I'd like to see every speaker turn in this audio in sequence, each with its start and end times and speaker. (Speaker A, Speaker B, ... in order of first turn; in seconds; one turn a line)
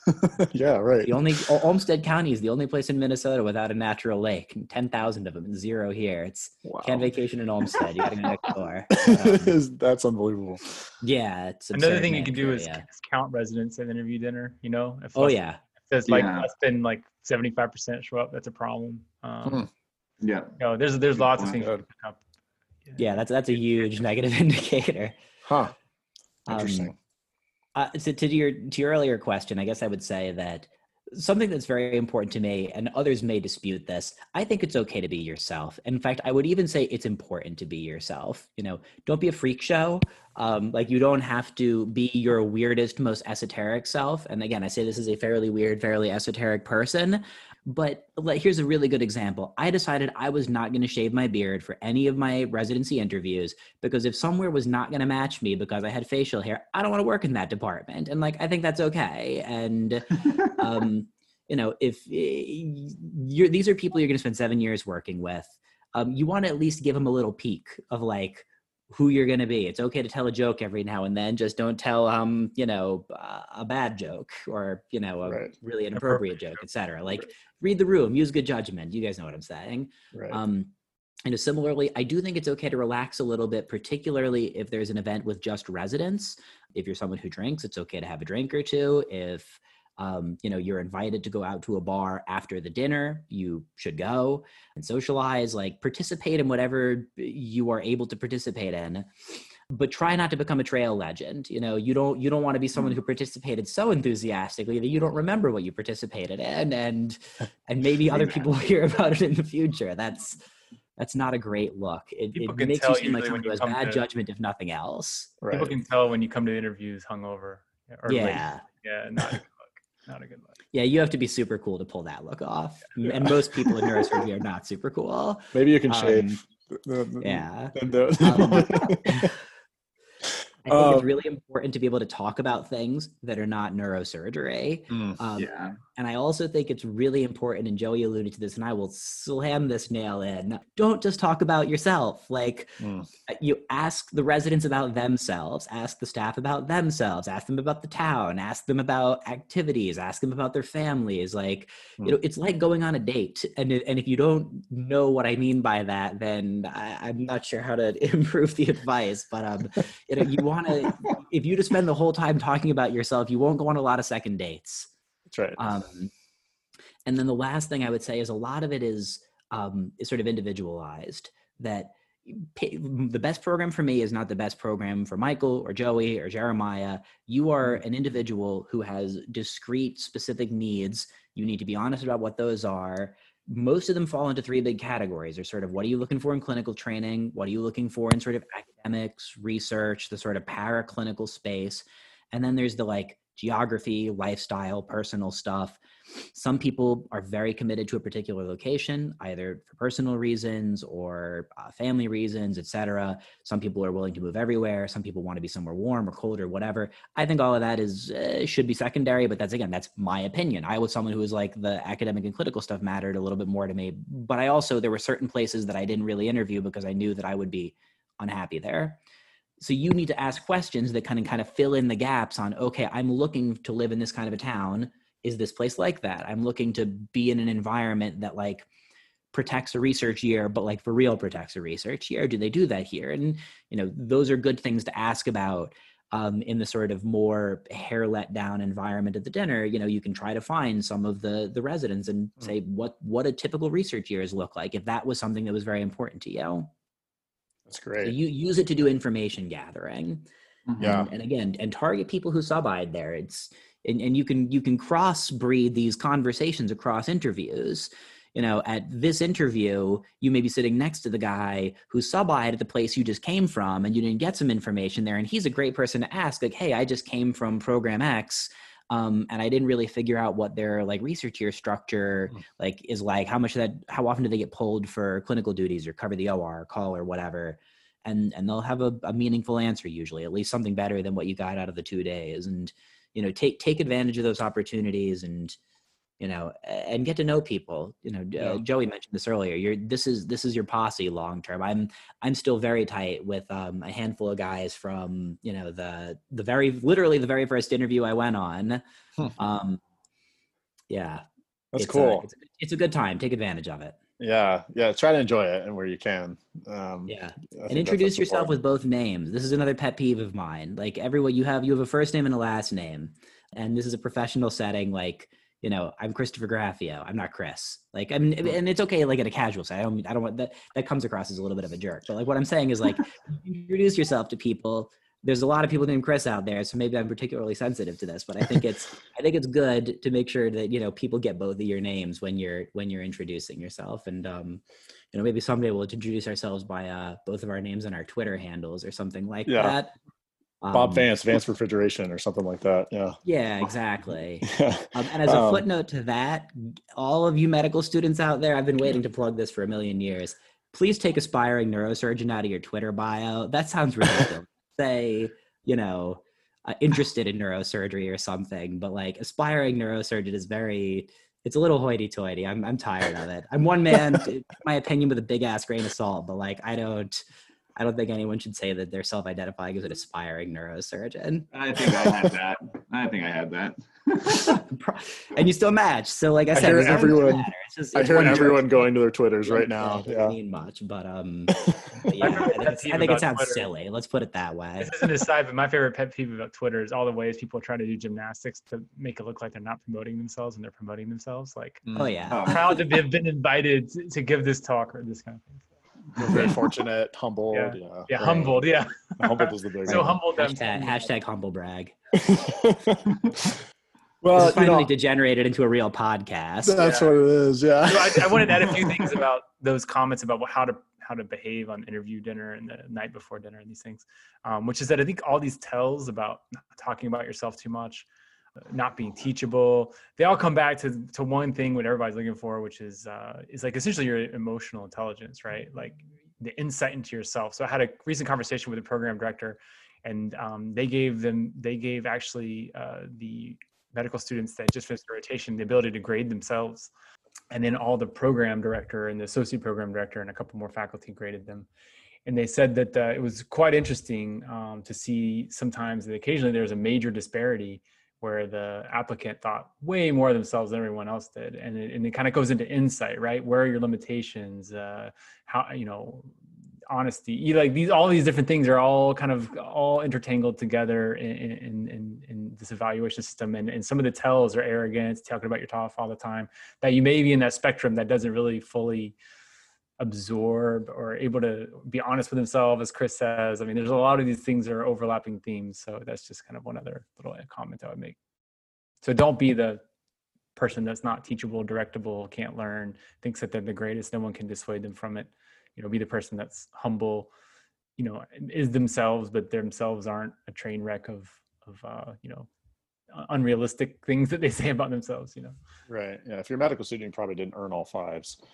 Speaker A: 0.1-1.2
Speaker B: 1.0-9.6
Speaker A: 6.6-7.0
Speaker A: 8.9-10.8
Speaker B: 11.0-12.8
Speaker C: 11.7-19.6
Speaker B: 15.1-15.6
Speaker D: 16.1-16.5
Speaker D: 20.2-20.6
Speaker C: 20.6-22.2
Speaker D: 21.3-21.6
Speaker B: 23.0-25.1
Speaker A: 25.4-25.7
Speaker B: 26.5-26.9
Speaker A: 26.5-26.9
Speaker B: 27.7-80.7
Speaker A: 75.2-75.5
Speaker A: 80.1-80.4
Speaker B: 81.2-99.1
Speaker B: 99.7-110.4
Speaker B: 111.0-115.3
Speaker C: 112.3-114.0
Speaker A: 115.4-115.7
Speaker C: 115.5-120.6
Speaker B: 118.1-118.6
Speaker B: 120.7-126.4
Speaker A: 123.0-123.8
Speaker A: 125.5-129.3
Speaker B: 127.2-129.4
Speaker B: 130.6-164.9
Speaker A: 130.7-131.1
Speaker A: 134.9-135.2
Speaker D: 135.4-135.8
Speaker A: 142.8-143.1
Speaker A: 165.3-165.6
Speaker B: 165.6-166.1
Speaker B: 167.1-195.8
Speaker B: 196.3-219.0
Speaker B: 219.6-228.7
Speaker B: 229.3-246.7
Speaker A: 247.7-248.1
Speaker B: 248.0-250.2
Speaker A: 250.8-251.1
Speaker B: 250.8-285.6
Speaker B: 286.2-298.8
Speaker B: 299.4-299.8
Speaker B: 300.9-304.0
Speaker A: 301.7-302.2
Speaker A: 304.2-308.6
Speaker B: 307.1-339.9
Speaker A: 339.5-339.8
Speaker B: 340.6-341.1
Speaker A: 340.7-343.2
Speaker B: 343.2-367.2
Speaker A: 344.4-345.6
Speaker B: 367.8-371.5
Speaker D: 371.5-374.6
Speaker B: 374.5-378.7
Speaker A: 376.5-380.4
Speaker B: 379.4-384.9
Speaker A: 381.5-382.1
Speaker C: 382.2-383.7
Speaker C: 384.8-391.9
Speaker A: 391.9-392.4
Speaker B: 391.9-392.8
Speaker D: 392.3-392.6
Speaker C: 392.4-395.6
Speaker A: 396.2-398.6
Speaker C: 397.5-401.1
Speaker A: 399.1-400.2
Speaker B: 399.9-401.9
Speaker A: 402.1-403.6
Speaker A: 404.2-404.9
Speaker B: 404.3-406.9
Speaker A: 406.6-409.0
Speaker C: 406.8-407.1
Speaker C: 407.8-418.1
Speaker C: 418.7-436.9
Speaker C: 437.5-441.7
Speaker C: 442.2-456.3
Speaker C: 456.9-469.1
Speaker C: 470.0-478.2
Speaker C: 479.0-479.8
Speaker C: 480.6-487.3
Speaker C: 488.0-492.5
Speaker C: 493.1-495.6
Speaker A: 495.9-498.4